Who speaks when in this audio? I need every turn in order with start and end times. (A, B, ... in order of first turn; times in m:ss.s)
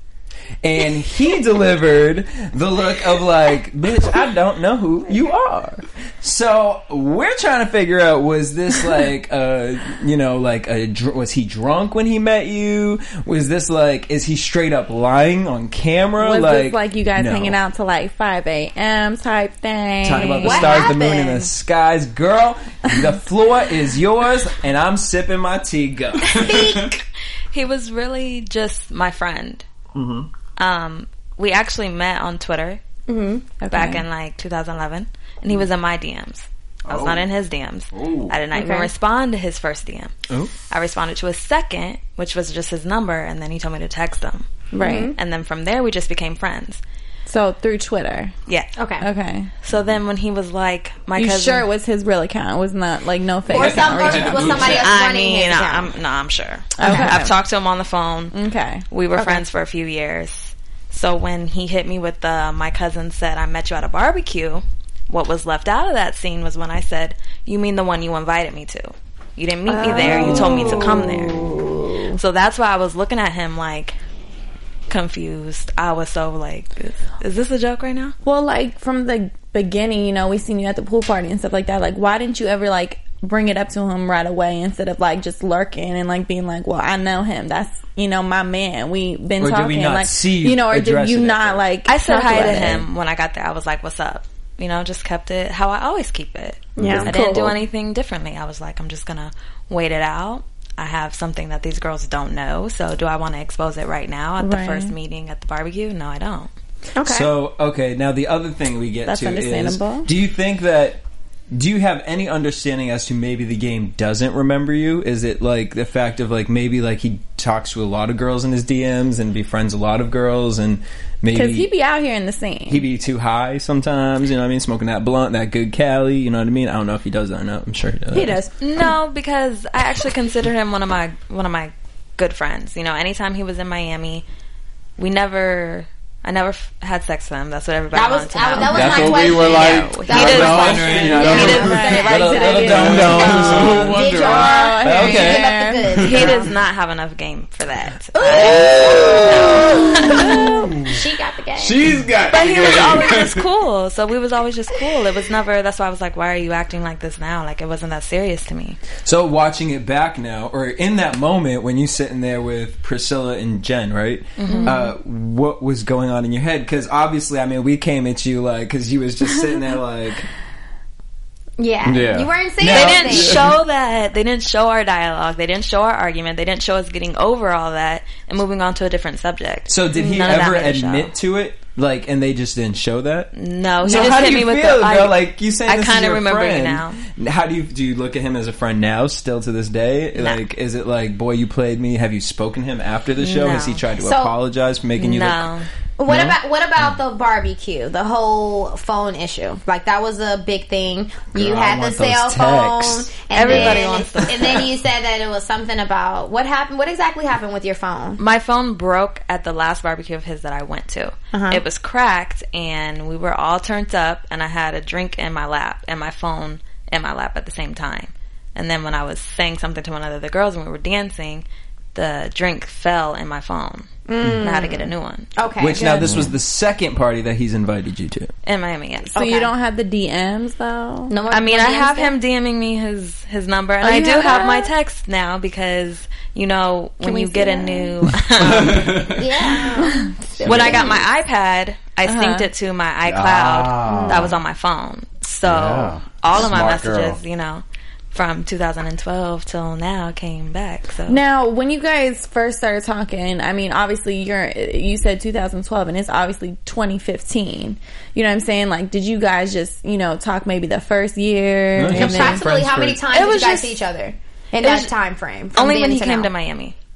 0:00.6-0:17.6 A
0:16.2-0:20.9 B
0:20.0-0:26.8 A
0:20.4-0:21.5 C
0:26.3-0:27.0 C
0:26.3-0:26.9 D
0:27.5-0:29.6 E
0:29.9-0:30.3 A
0:30.6-0:32.8 E
0:33.1-0:33.4 C
0:33.6-0:34.0 B
0:33.7-0:40.1 E
0:36.9-0:37.2 D
0:38.0-0:38.3 D
0:38.5-0:38.9 C
0:40.7-0:46.8 E
0:44.7-0:45.1 B
0:44.8-0:45.2 C
0:47.2-0:48.3 B
0:48.5-0:48.7 E
0:48.8-0:49.0 C
0:49.0-0:49.5 B
0:49.6-0:51.7 E
0:51.2-0:54.7 B
0:53.5-0:55.9 C
0:53.5-0:54.9 D
0:54.6-0:58.3 E
0:56.8-0:57.4 B
0:56.8-0:57.2 C
0:58.3-0:58.8 B
0:58.9-1:11.4 E
0:59.2-0:59.4 C
1:09.7-1:12.2 C
1:12.1-1:14.0 E
1:14.9-1:18.1 E
1:18.2-1:32.8 B
1:29.4-1:31.6 A
1:31.8-1:46.5 E
1:36.8-1:37.0 D
1:36.8-1:37.6 C
1:36.8-1:37.1 A
1:44.4-1:44.9 B
1:47.0-1:47.3 C
1:47.0-2:01.7 A
1:49.0-1:50.1 B
2:01.3-2:02.8 B
2:02.7-2:08.4 A
2:08.1-2:08.9 C
2:08.6-2:14.2 E
2:15.0-2:22.3 E
2:17.9-2:26.5 C
2:18.6-2:21.8 D
2:20.1-2:24.2 A
2:21.2-2:26.3 B
2:22.4-2:24.7 D
2:24.8-2:25.5 A
2:26.0-2:30.5 E
2:26.0-2:26.3 D
2:28.1-2:32.0 C
2:28.5-2:29.4 D
2:30.1-2:30.5 B
2:30.7-2:31.0 D
2:31.5-2:33.5 D
2:32.3-2:38.8 E
2:39.0-2:50.3 A
2:44.4-2:44.8 E
2:44.5-2:44.8 C
2:51.6-2:53.5 C
2:51.8-2:53.2 D
2:52.6-2:53.4 A
2:52.6-3:01.1 E
2:59.7-3:03.3 A
3:00.0-3:00.4 C
3:03.3-3:07.0 E
3:03.8-3:04.1 C
3:03.8-3:15.5 A
3:10.2-3:10.4 E
3:13.2-3:13.8 E
3:14.0-3:14.3 C
3:15.0-3:15.7 E
3:16.0-3:28.2 C
3:16.1-3:16.4 A
3:21.3-3:23.8 A
3:23.3-3:24.7 E
3:28.2-3:45.3 E
3:31.3-3:31.6 C
3:44.1-3:46.3 C
3:45.6-3:48.3 A
3:48.4-3:49.5 E
3:49.1-3:51.2 B
3:49.2-3:49.5 C
3:51.1-3:52.2 C
3:51.3-3:59.2 E
3:53.8-3:54.6 B
3:53.8-3:54.7 C
3:57.0-3:58.0 B
3:58.4-3:59.4 D
3:59.2-4:01.0 C
3:59.8-4:00.1 B
4:00.4-4:11.2 E
4:00.4-4:00.9 D
4:02.0-4:02.5 B
4:03.0-4:04.3 D
4:03.8-4:04.3 C
4:05.4-4:07.2 D
4:11.1-4:22.4 B
4:21.8-4:23.0 A
4:21.9-4:26.3 C
4:23.1-4:23.8 E
4:24.6-4:24.9 E
4:25.5-4:26.7 E